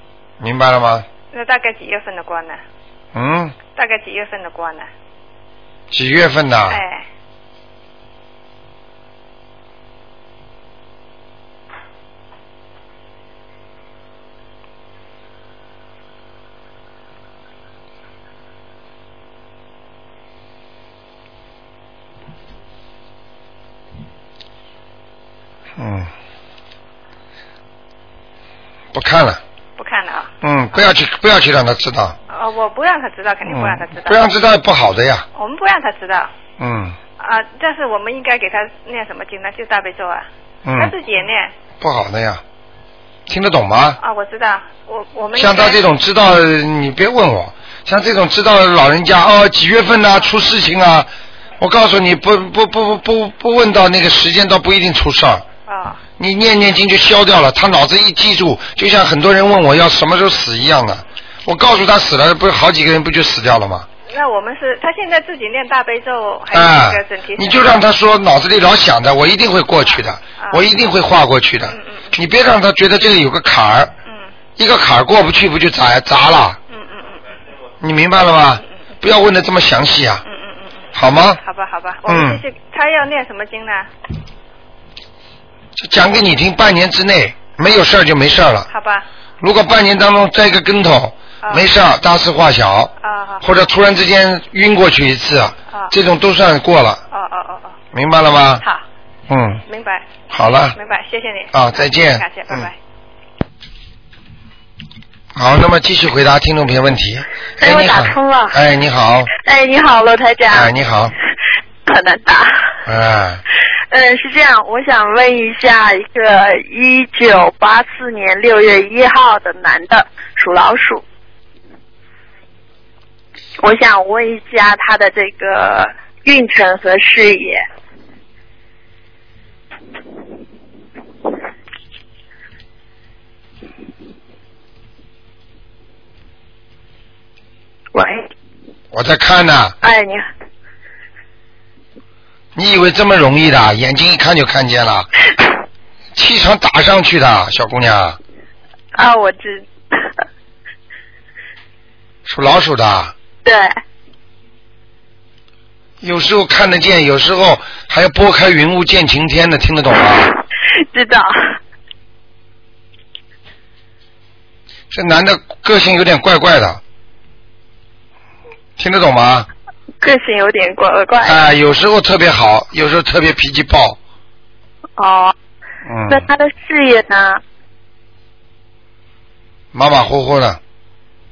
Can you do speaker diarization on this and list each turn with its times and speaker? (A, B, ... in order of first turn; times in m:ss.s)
0:00.4-0:01.1 A
0:01.3-0:02.6 B
0:03.1-0:03.6 A
0:03.8-0:04.9 B
0:05.9-0:06.8 A
0:06.7-0:07.1 B
0:25.8-0:26.1 A
0:28.9-0:29.4 A
0:29.8-0:30.3 B
0:30.4-0:32.2 A
0:32.3-0:34.3 B
0:33.5-0:35.3 A
0:35.4-0:36.3 B
0:36.6-0:37.0 A
0:37.2-0:41.5 B
0:40.6-0:40.9 A
0:41.8-0:42.4 A
0:43.3-0:44.0 A
0:44.0-0:45.8 B
0:45.4-0:51.1 A
0:51.6-0:55.4 A
0:55.7-0:56.0 B
0:56.2-1:03.9 A
1:04.1-1:07.8 B
1:06.5-1:13.9 A
1:09.8-1:10.6 B
1:11.7-1:12.2 B
1:14.6-1:16.6 A
1:16.7-1:17.3 B
1:17.8-1:20.2 A
1:20.2-1:20.9 B
1:20.9-1:21.4 A
1:21.4-1:23.9 B
1:22.1-1:22.4 A
1:25.8-1:28.7 A
1:28.7-1:29.1 B
1:29.4-1:37.0 A
1:33.0-1:33.5 B
1:37.1-1:37.8 B
1:37.9-1:38.6 A
1:39.3-1:39.6 A
1:39.7-1:40.1 B
1:40.3-1:40.8 A
1:40.7-1:42.8 B
1:41.5-1:42.7 A
1:45.4-1:49.3 A
1:47.6-1:48.6 C
1:49.4-1:50.7 C
1:50.5-1:51.1 A
1:51.9-1:52.8 C
1:52.9-1:53.4 A
1:53.9-2:01.0 C
2:03.6-2:07.6 C
2:17.9-2:18.3 C
2:18.9-2:19.8 A
2:19.8-2:20.2 C
2:22.6-2:25.1 A
2:26.2-2:28.2 A
2:29.0-2:30.1 C
2:32.3-2:33.1 A
2:33.4-2:33.8 C
2:36.0-2:40.3 A
2:40.8-2:41.6 C
2:44.9-2:46.8 A
2:48.8-2:49.5 A
2:50.0-2:51.4 C
2:51.2-2:54.0 A
2:55.0-2:55.3 C
2:55.8-2:56.3 A
2:56.1-2:57.4 C
2:59.7-3:00.6 A